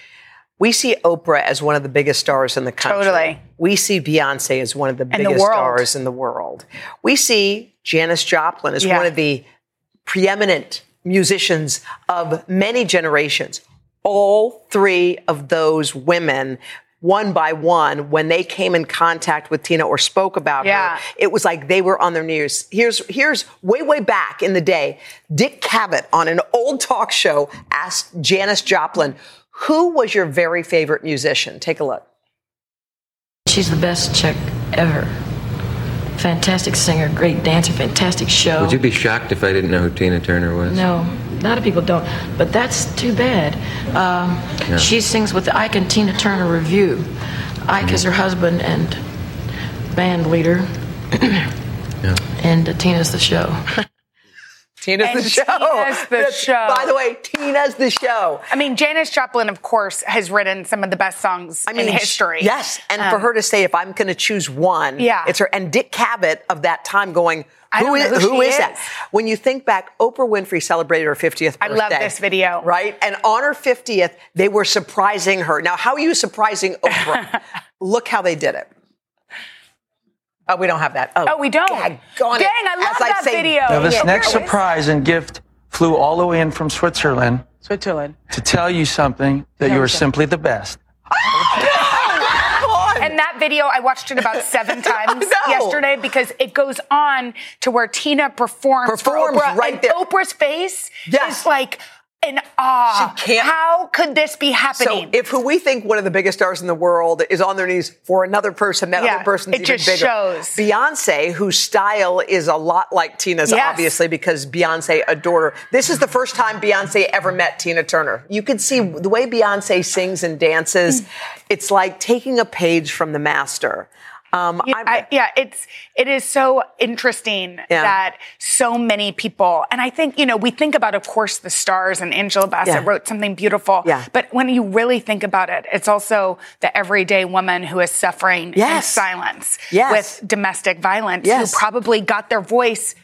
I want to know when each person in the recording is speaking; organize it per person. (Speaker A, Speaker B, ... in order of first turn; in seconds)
Speaker A: 0.6-9.4, 10.1-32.0, 54.8-58.5, 61.7-78.7, 80.5-84.2, 91.1-93.1, 94.8-95.8, 98.8-100.0, 101.1-101.4, 102.9-103.5, 104.7-125.0, 127.7-127.9, 138.6-139.0, 139.7-140.2, 141.2-141.6
Speaker B: 2.8-3.4, 5.1-5.9, 8.8-9.1, 20.6-21.0, 55.0-56.9, 58.5-63.2, 65.0-65.3, 67.7-68.8, 71.6-72.7, 81.2-84.6, 91.6-105.1, 109.0-110.6, 113.5-113.9, 124.6-142.9
Speaker C: 33.5-35.1, 36.1-38.8, 40.6-47.1, 47.6-49.0, 49.9-51.5, 52.3-53.8
Speaker D: 38.6-40.7
Speaker E: 83.7-87.6, 88.3-90.8